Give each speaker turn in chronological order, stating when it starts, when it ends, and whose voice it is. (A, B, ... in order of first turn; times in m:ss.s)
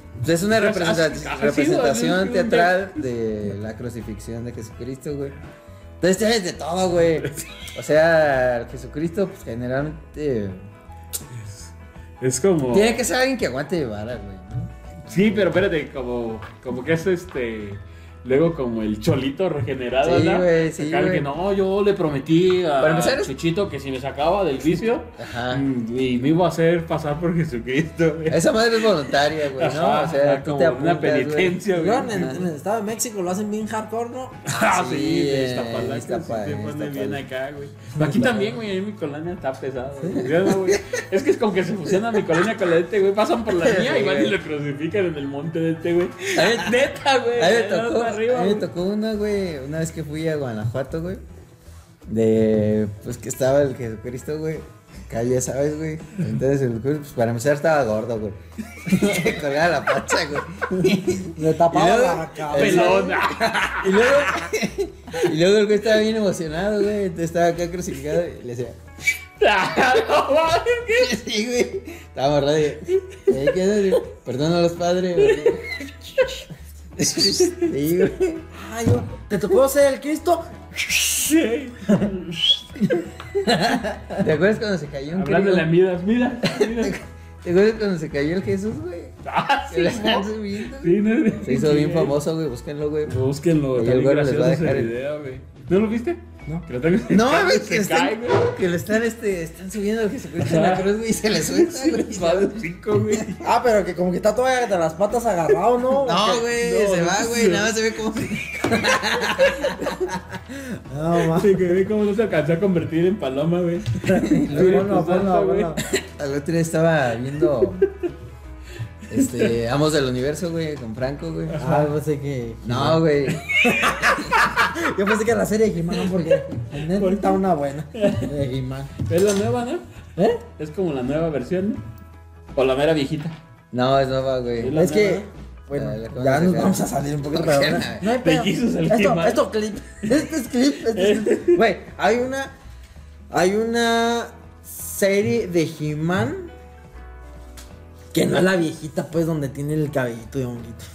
0:00.2-0:05.4 A
0:00.5-0:03.0 B
0:06.0-0:10.6 A
0:11.3-0:13.0 B
0:12.7-0:15.6 A
0:15.0-0:32.3 B
0:20.0-0:21.3 A
0:22.8-0:23.3 A
0:25.2-0:25.7 A
0:28.3-0:32.5 A
0:31.7-0:34.4 C
0:34.4-0:48.7 B
0:34.5-0:37.2 A
0:40.1-0:40.8 A
0:43.5-0:44.4 A
0:46.3-0:51.2 A
0:52.1-1:03.2 A
0:58.9-0:59.3 B
1:01.4-1:03.3 C
1:02.5-1:04.3 B
1:03.8-1:08.8 A
1:09.4-1:11.1 B
1:10.9-1:16.2 A
1:15.2-1:15.6 B
1:17.0-1:18.5 A
1:17.1-1:17.7 B
1:18.5-1:21.0 C
1:21.2-1:22.7 B
1:23.4-1:24.2 C
1:24.2-1:25.7 A
1:25.1-1:27.0 B
1:26.4-1:29.2 A
1:29.2-1:32.2 B
1:29.7-1:33.2 A
1:33.0-1:38.4 B
1:33.7-1:34.9 A
1:37.1-1:42.7 A
1:40.4-1:43.5 B
1:43.4-1:46.5 C
1:46.0-1:50.1 A
1:46.6-1:47.7 B
1:50.9-1:51.8 C
1:51.2-1:55.8 B
1:54.0-1:55.8 C
1:54.2-1:54.9 A
1:55.9-1:57.9 A
1:59.1-1:59.6 B
1:59.1-2:01.6 A
2:01.5-2:01.9 B
2:01.6-2:03.0 C
2:02.6-2:03.4 A
2:03.3-2:04.4 B
2:03.6-2:08.9 C
2:06.0-2:08.3 B
2:09.0-2:09.8 B
2:10.2-2:10.4 C
2:10.6-2:11.8 B
2:12.6-2:13.4 B
2:13.7-2:14.8 A
2:14.6-2:15.3 B
2:14.7-2:22.5 C
2:15.7-2:18.1 A
2:18.0-2:19.4 B
2:20.0-2:21.6 B
2:23.3-2:26.5 C
2:28.1-2:30.8 C